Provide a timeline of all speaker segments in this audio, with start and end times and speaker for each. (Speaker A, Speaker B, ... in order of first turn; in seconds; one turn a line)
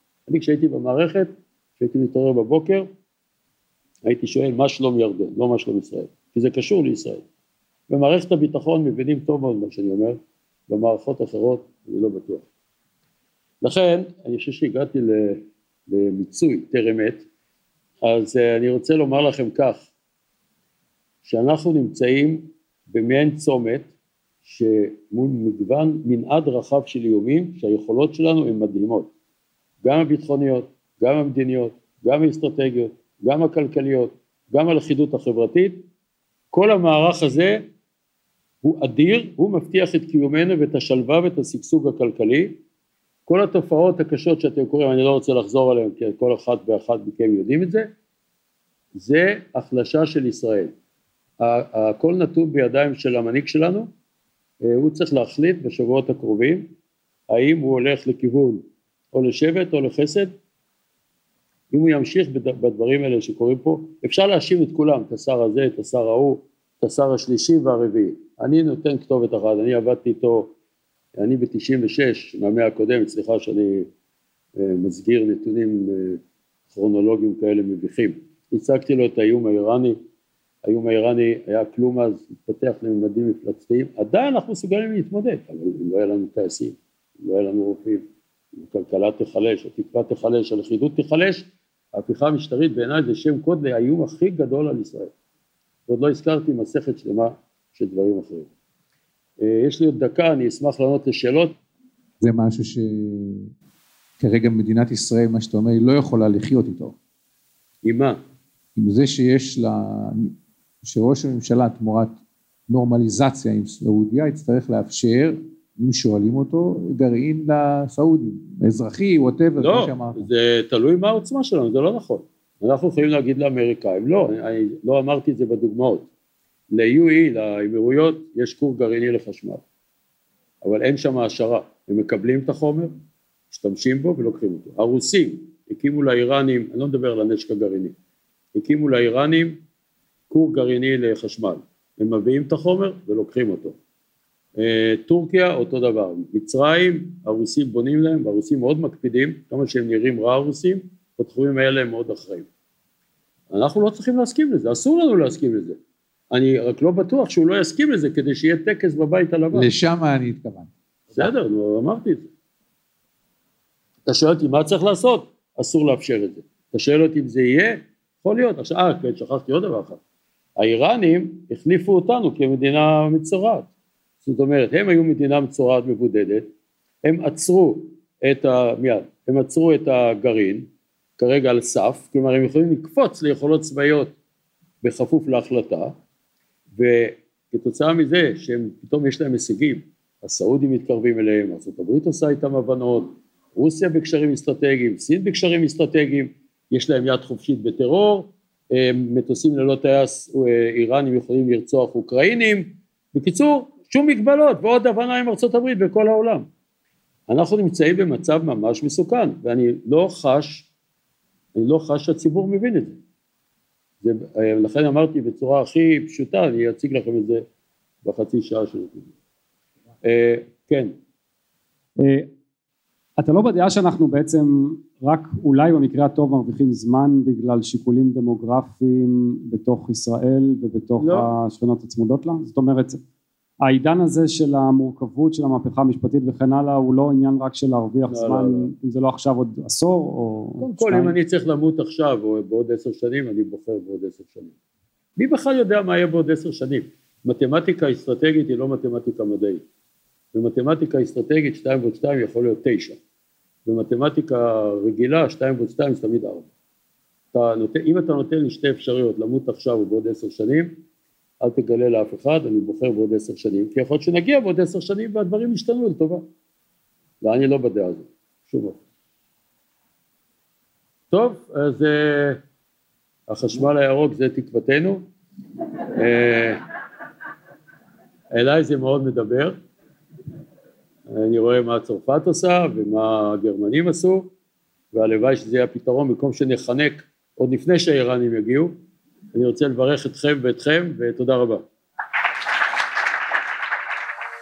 Speaker A: 0.3-2.9
Speaker A: 4.0-7.2
Speaker A: 7.9-12.5
Speaker A: 13.6-17.2
Speaker A: 18.0-19.9
Speaker A: 21.2-23.9
Speaker A: 24.4-29.1
Speaker A: 29.8-35.9
Speaker A: 36.5-37.6
Speaker A: 38.6-42.6
Speaker A: 43.3-47.9
Speaker A: 48.9-50.7
Speaker A: 51.4-53.9
Speaker A: 54.6-56.7
Speaker A: 57.3-60.3
Speaker A: 61.7-70.5
Speaker A: 71.2-73.9
Speaker A: 74.6-80.0
Speaker A: 80.6-95.1
Speaker A: 95.9-98.5
Speaker A: 99.4-101.5
Speaker B: 102.2-103.5
Speaker B: 104.2-107.0
Speaker A: 107.8-108.2
Speaker B: 108.8-120.3
Speaker A: 119.6-126.1
Speaker A: 126.7-129.6
Speaker A: 130.6-132.9
Speaker A: 133.5-137.9
Speaker A: 138.5-139.6
Speaker A: 140.3-143.8
Speaker A: 144.6-152.5
Speaker A: 153.5-155.8
Speaker A: 156.3-159.7
Speaker B: 159.5-161.3
Speaker A: 161.1-162.3
Speaker A: 164.1-170.0
Speaker A: 170.6-173.7
Speaker A: 174.2-176.5
Speaker A: 177.0-180.7
Speaker A: 181.2-184.2
Speaker A: 184.8-185.9
Speaker A: 186.8-206.5
Speaker A: 207.3-210.7
Speaker A: 211.5-213.0
Speaker A: 214.0-217.4
Speaker A: 218.0-219.1
Speaker A: 220.0-220.9
Speaker C: 222.0-222.3
Speaker C: 223.2-233.0
Speaker A: 231.0-231.3
Speaker C: 233.6-241.2
Speaker A: 238.1-238.7
Speaker A: 240.6-244.5
Speaker A: 245.2-249.6
Speaker A: 250.3-253.0
Speaker A: 253.7-256.5
Speaker A: 257.3-260.8
Speaker A: 261.4-266.2
Speaker A: 267.2-268.8
Speaker A: 271.1-272.4
Speaker A: 273.3-275.0
Speaker A: 275.9-276.6
Speaker A: 278.3-279.6
Speaker A: 281.1-284.3
Speaker A: 284.9-288.7
Speaker A: 289.3-291.6